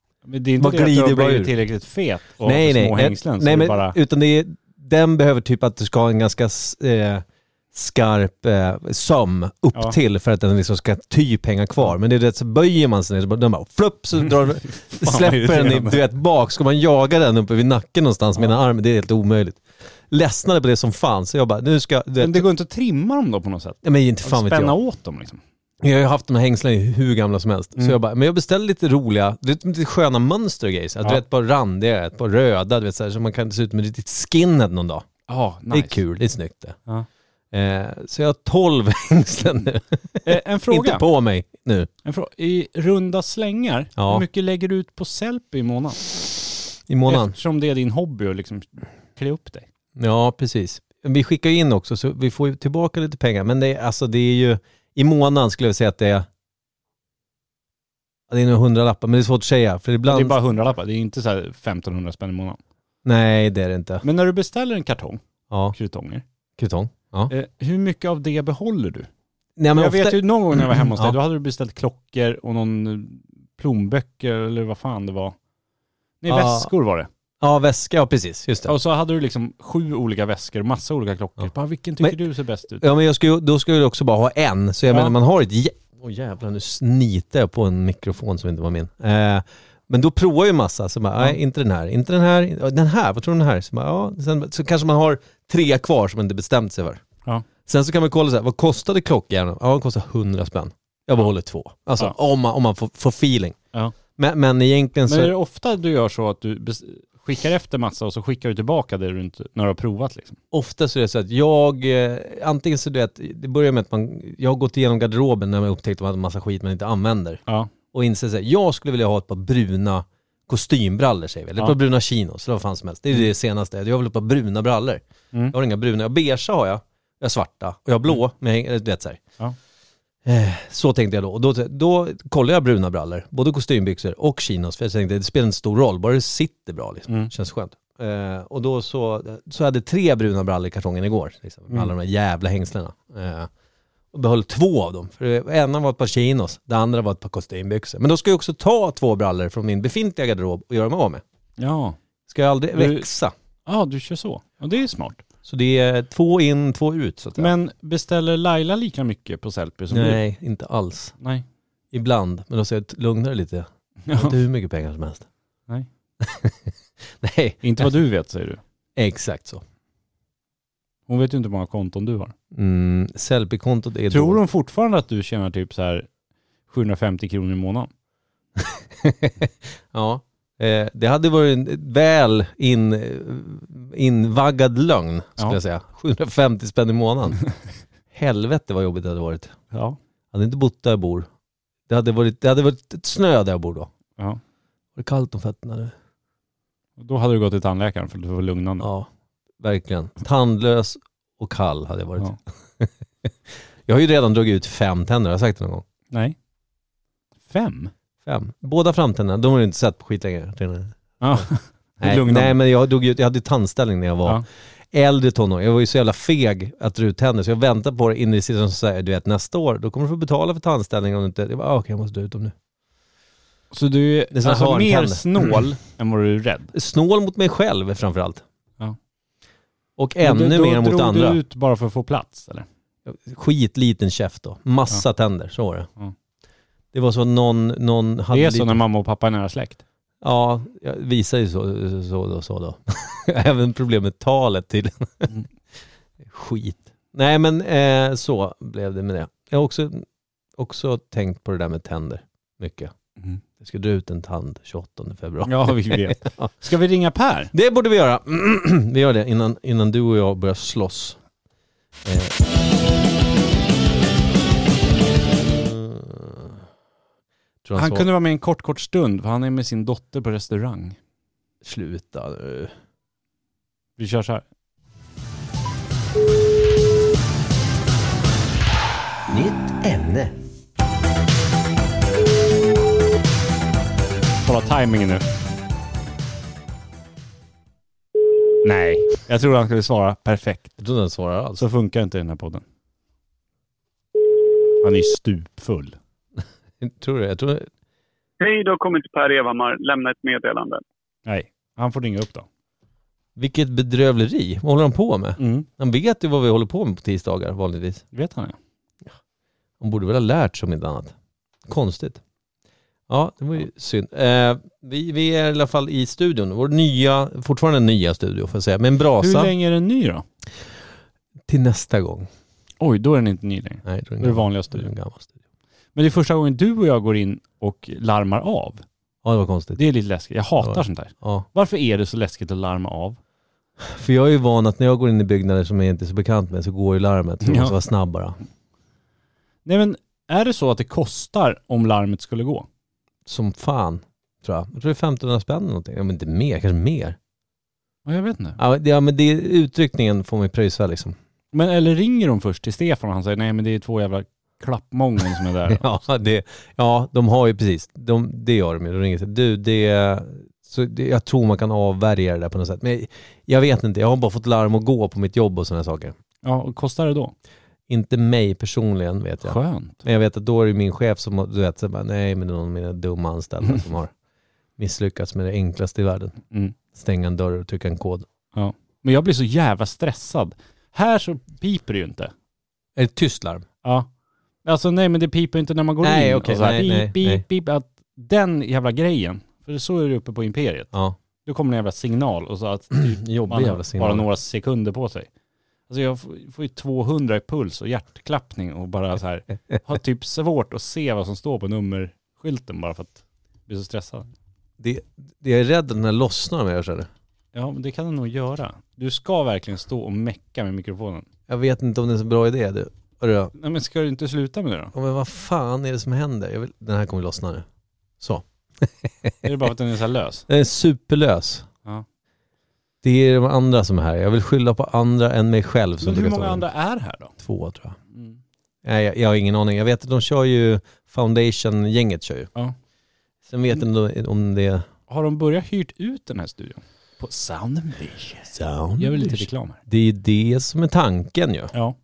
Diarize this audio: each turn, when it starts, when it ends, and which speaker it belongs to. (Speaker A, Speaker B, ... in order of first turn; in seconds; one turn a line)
Speaker A: 0.2-4.0
Speaker B: 0.6-1.5
Speaker B: 2.4-22.4
Speaker A: 14.9-16.0
Speaker A: 22.2-25.4
Speaker B: 23.8-24.8
Speaker B: 25.8-35.1
Speaker A: 35.3-36.0
Speaker B: 35.7-36.8
Speaker B: 37.5-41.9
Speaker A: 40.2-41.0
Speaker A: 42.0-46.1
Speaker B: 44.0-44.2
Speaker B: 46.9-47.4
Speaker A: 47.1-49.7
Speaker B: 50.0-56.3
Speaker B: 58.3-60.4
Speaker A: 60.1-62.6
Speaker B: 63.0-64.0
Speaker A: 64.0-66.2
Speaker B: 65.5-65.8
Speaker B: 66.6-67.3
Speaker A: 67.3-69.1
Speaker B: 69.6-71.2
Speaker A: 69.7-75.4
Speaker A: 76.2-77.1
Speaker B: 76.3-76.7
Speaker B: 77.4-78.7
Speaker A: 78.7-82.9
Speaker B: 82.8-97.0
Speaker B: 97.6-103.6
Speaker B: 104.2-105.3
Speaker A: 105.1-110.4
Speaker B: 110.5-117.4
Speaker B: 117.9-129.2
Speaker B: 130.2-143.5
Speaker B: 144.1-151.2
Speaker A: 151.6-152.0
Speaker B: 152.3-153.3
Speaker A: 152.7-153.1
Speaker A: 153.6-155.2
Speaker B: 155.4-157.5
Speaker A: 157.4-160.2
Speaker B: 159.9-161.1
Speaker B: 161.9-165.3
Speaker A: 164.1-164.4
Speaker B: 166.2-167.9
Speaker A: 167.6-168.6
Speaker B: 168.9-169.6
Speaker A: 171.1-172.3
Speaker B: 172.5-174.4
Speaker A: 174.1-176.1
Speaker A: 176.7-177.9
Speaker B: 178.6-187.4
Speaker B: 188.1-189.6
Speaker A: 189.7-190.0
Speaker B: 190.3-191.3
Speaker B: 191.9-193.9
Speaker B: 194.9-195.9
Speaker A: 197.0-198.9
Speaker B: 198.8-199.1
Speaker B: 199.6-205.8
Speaker A: 206.1-206.3
Speaker A: 207.5-207.9
Speaker B: 208.2-211.4
Speaker A: 211.2-212.6
Speaker B: 212.0-222.6
Speaker A: 223.7-226.7
Speaker B: 224.3-225.6
Speaker B: 226.7-228.4
Speaker B: 230.0-231.4
Speaker A: 230.2-232.7
Speaker B: 233.1-235.9
Speaker B: 236.9-238.8
Speaker A: 238.3-239.8
Speaker B: 240.2-245.3
Speaker B: 246.2-250.1
Speaker B: 250.6-252.9
Speaker B: 253.6-256.5
Speaker A: 255.4-257.5
Speaker B: 257.5-261.2
Speaker B: 262.1-262.3
Speaker B: 265.3-266.6
Speaker B: 267.6-268.1
Speaker A: 267.8-271.0
Speaker B: 271.6-272.7
Speaker A: 274.0-274.4
Speaker B: 279.3-280.4
Speaker A: 284.4-285.2
Speaker A: 288.6-290.7
Speaker B: 290.8-291.6
Speaker A: 291.6-292.6
Speaker A: 294.8-296.0
Speaker B: 296.8-297.7
Speaker C: 298.4-300.8
Speaker A: 301.3-302.4
Speaker B: 303.4-308.0
Speaker A: 305.4-305.7
Speaker A: 308.1-308.6
Speaker B: 309.8-311.1
Speaker B: 311.7-312.2
Speaker B: 313.1-319.5
Speaker A: 319.2-320.2
Speaker B: 321.5-322.3
Speaker A: 322.8-324.9
Speaker B: 323.8-325.3
Speaker A: 325.9-328.8
Speaker B: 329.2-329.8
Speaker A: 329.8-333.2
Speaker B: 330.6-331.4
Speaker B: 333.8-338.4
Speaker A: 337.4-337.8
Speaker A: 339.6-342.7
Speaker B: 343.3-347.2
Speaker A: 348.1-348.6
Speaker B: 348.6-351.1
Speaker A: 351.5-355.8
Speaker B: 355.7-366.1
Speaker A: 366.4-367.3
Speaker B: 367.9-374.1
Speaker A: 369.4-370.0
Speaker B: 374.8-376.4
Speaker A: 376.5-376.8
Speaker B: 376.9-378.3
Speaker A: 378.5-382.3
Speaker B: 382.9-383.6
Speaker A: 384.6-390.9
Speaker B: 386.0-387.4
Speaker A: 391.4-395.3
Speaker B: 393.1-394.3
Speaker A: 395.9-404.3
Speaker B: 404.8-407.1
Speaker A: 407.5-411.3
Speaker B: 411.5-413.5
Speaker A: 413.6-414.9
Speaker B: 414.9-417.6
Speaker B: 418.2-419.3
Speaker A: 419.4-420.4
Speaker B: 420.5-421.7
Speaker B: 423.0-426.6
Speaker A: 426.0-427.3
Speaker B: 427.4-427.9
Speaker A: 428.1-428.4
Speaker B: 428.8-432.5
Speaker B: 433.5-434.8
Speaker A: 435.1-439.8
Speaker B: 438.5-441.7